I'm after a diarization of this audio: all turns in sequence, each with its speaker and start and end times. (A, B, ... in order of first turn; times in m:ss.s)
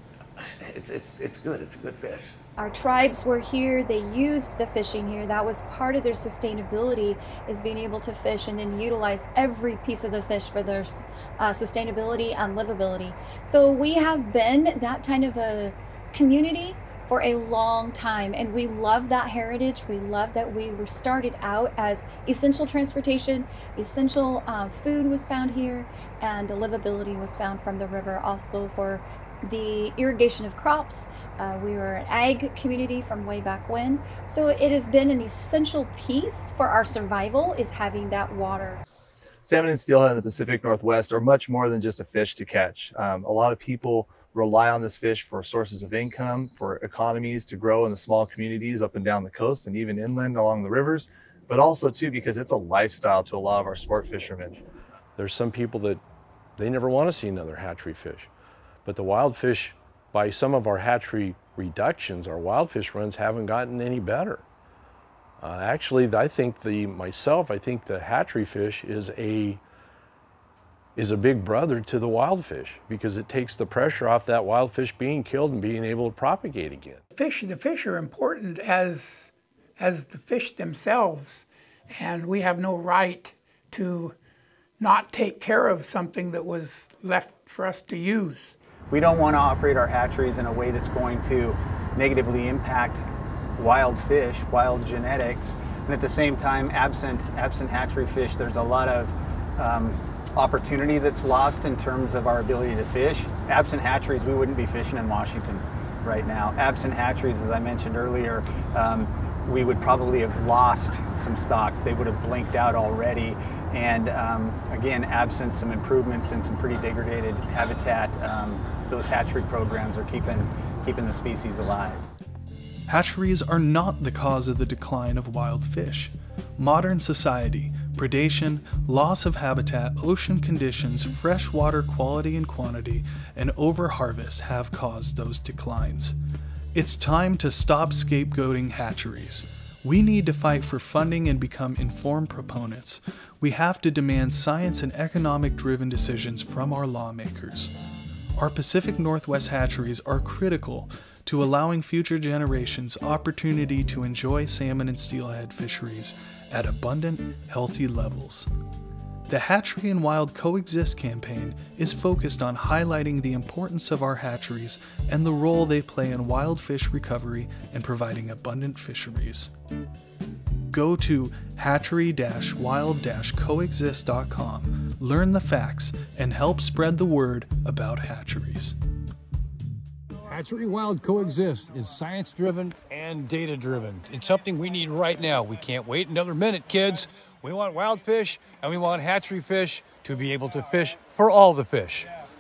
0:00.4-0:02.4 A
0:02.6-0:38.8 B
0:39.4-0:54.6 C
0:55.2-0:56.0 D
0:56.6-0:58.3 D
0:58.8-1:04.4 D
1:05.4-1:09.6 D
1:11.0-1:17.0 D
1:17.1-1:24.2 E
1:24.8-1:28.5 E
1:28.9-1:33.0 F
1:33.6-2:02.0 F
2:02.9-2:16.2 G
2:16.7-2:27.7 G
2:28.4-2:38.5 G
2:39.3-2:49.5 G
2:50.7-2:58.8 G
3:00.3-3:12.1 H